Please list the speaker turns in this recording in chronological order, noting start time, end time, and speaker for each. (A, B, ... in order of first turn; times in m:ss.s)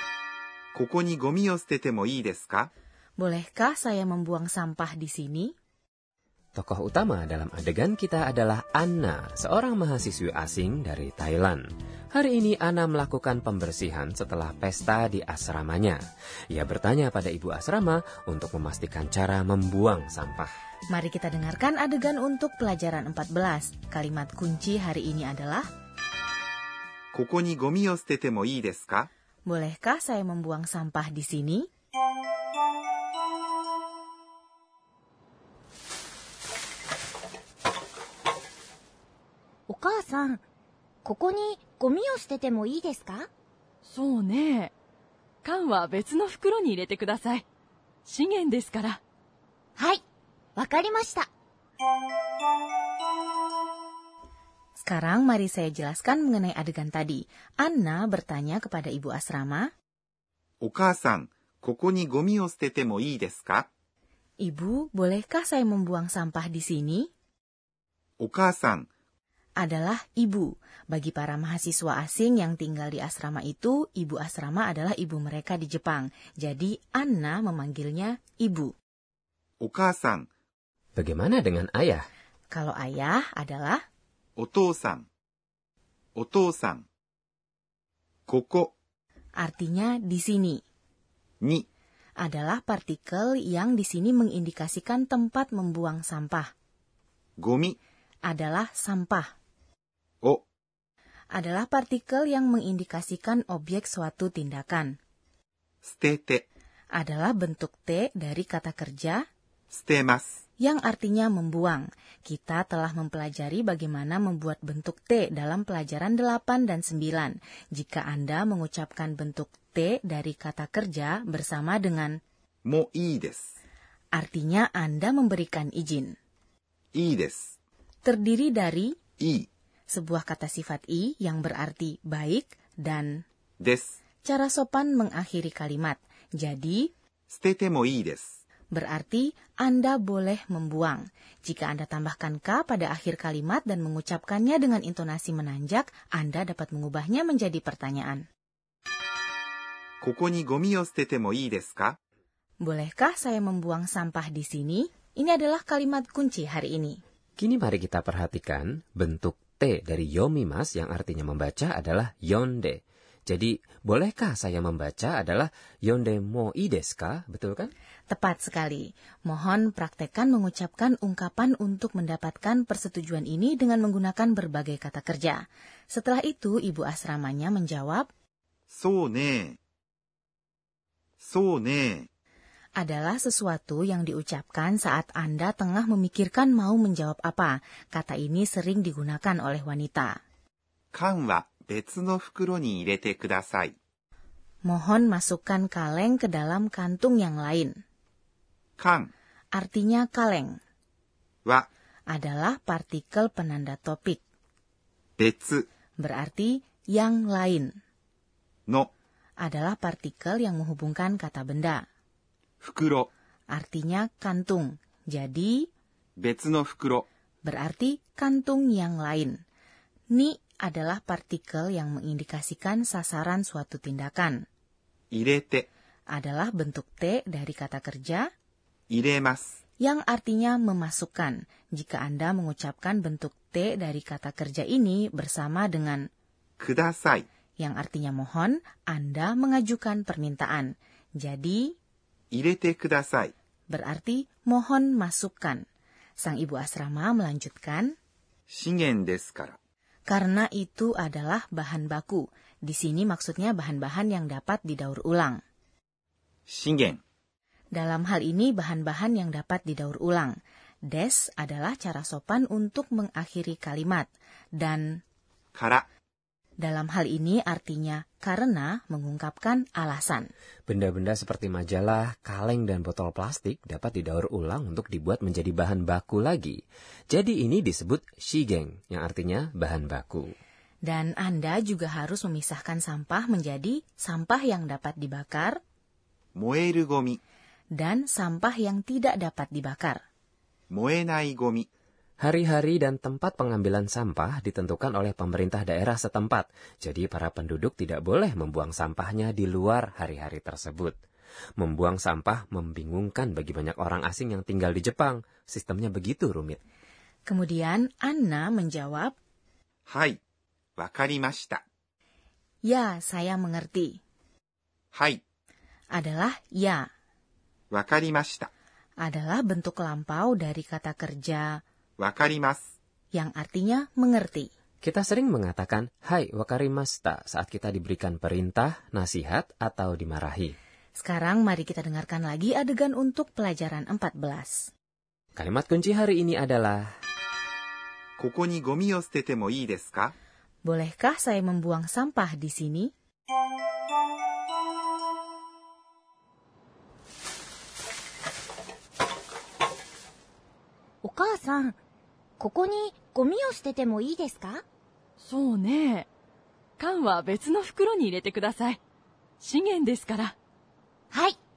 0:00.7-0:02.7 A
0:03.2-0:05.5 B
0:06.5-0:16.0 C
0:16.5-0:20.5 C
0:20.9-0:25.7 B
0:27.1-0:29.1 A
0:29.5-0:31.7 B
0:39.7-0:40.4 D
0:41.0-0:43.3 D
0:43.8-0:44.7 E
0:45.4-0:47.4 E
0:48.0-0:49.0 E
0:50.6-0:51.3 D
0:54.8-0:59.7 B
1:00.6-1:03.7 A
1:04.4-1:07.1 B
1:08.2-1:08.8 A
1:09.6-1:18.7 B
1:19.6-1:20.2 A
1:21.0-1:22.1 C
1:22.5-1:23.8 B
1:24.4-1:25.0 A
1:26.2-1:26.8 A
1:28.3-1:28.7 A
1:29.4-1:30.6 B
1:32.2-1:36.5 B
1:37.4-1:37.8 A
1:38.2-1:39.3 B
1:41.3-1:44.9 B
1:45.8-1:46.4 A
1:46.9-1:49.2 B
1:49.7-1:50.3 A
1:50.6-2:02.2 B
2:02.6-2:03.4 A
2:04.1-2:06.1 B
2:06.9-2:07.5 A
2:08.0-2:08.9 B
2:09.2-2:09.5 A
2:09.9-2:13.2 B
2:13.6-2:13.9 A
2:14.2-2:16.9 B
2:17.3-2:18.3 A
2:18.7-2:28.2 B
2:30.0-2:32.0 A
2:32.6-2:37.0 B
2:37.4-2:47.7 C
2:48.1-2:58.1 B
2:58.7-2:59.6 A
3:01.2-3:02.1 A
3:02.8-3:10.2 B
3:10.9-3:13.7 A
3:14.6-3:17.7 B
3:18.8-3:19.1 A
3:19.5-3:20.6 B
3:22.1-3:24.2 B
3:25.2-3:25.6 A
3:26.0-3:27.7 B
3:29.4-3:31.8 B
3:32.6-3:33.1 A
3:33.5-3:35.7 B
3:36.2-3:37.0 A
3:37.4-3:39.4 B
3:40.1-3:44.4 B
3:45.1-3:45.7 A
3:46.1-3:48.3 B
3:48.9-3:49.6 A
3:49.8-3:56.0 B
3:56.6-3:57.2 A
3:57.6-4:01.7 B
4:02.3-4:03.3 A
4:03.7-4:05.6 B
4:06.2-4:07.9 B
4:08.5-4:09.6 A
4:10.1-4:15.4 B
4:16.5-4:17.0 A
4:17.7-4:20.4 B
4:20.9-4:24.1 B
4:24.6-4:25.0 B
4:25.5-4:25.8 A
4:26.6-4:30.3 B
4:30.7-4:40.3 C
4:40.8-4:45.6 B
4:46.4-4:47.2 A
4:47.7-4:50.0 B
4:50.7-4:51.7 A
4:52.2-5:00.9 C
5:01.6-5:06.6 C
5:07.3-5:09.1 B
5:09.9-5:10.2 A
5:10.8-5:11.6 A
5:12.6-5:14.0 B
5:14.9-5:15.2 A
5:15.9-5:16.9 B
5:17.7-5:18.5 A
5:19.0-5:21.6 B
5:22.0-5:22.6 A
5:23.1-5:24.5 B
5:24.8-5:30.6 C
5:31.0-5:34.7 B
5:35.4-5:36.9 C
5:38.2-5:40.1 A
5:40.6-5:42.9 B
5:51.0-5:51.8 D
5:52.4-5:54.6 D
5:55.2-5:56.1 E
5:56.8-5:58.8 E
5:59.4-6:00.3 E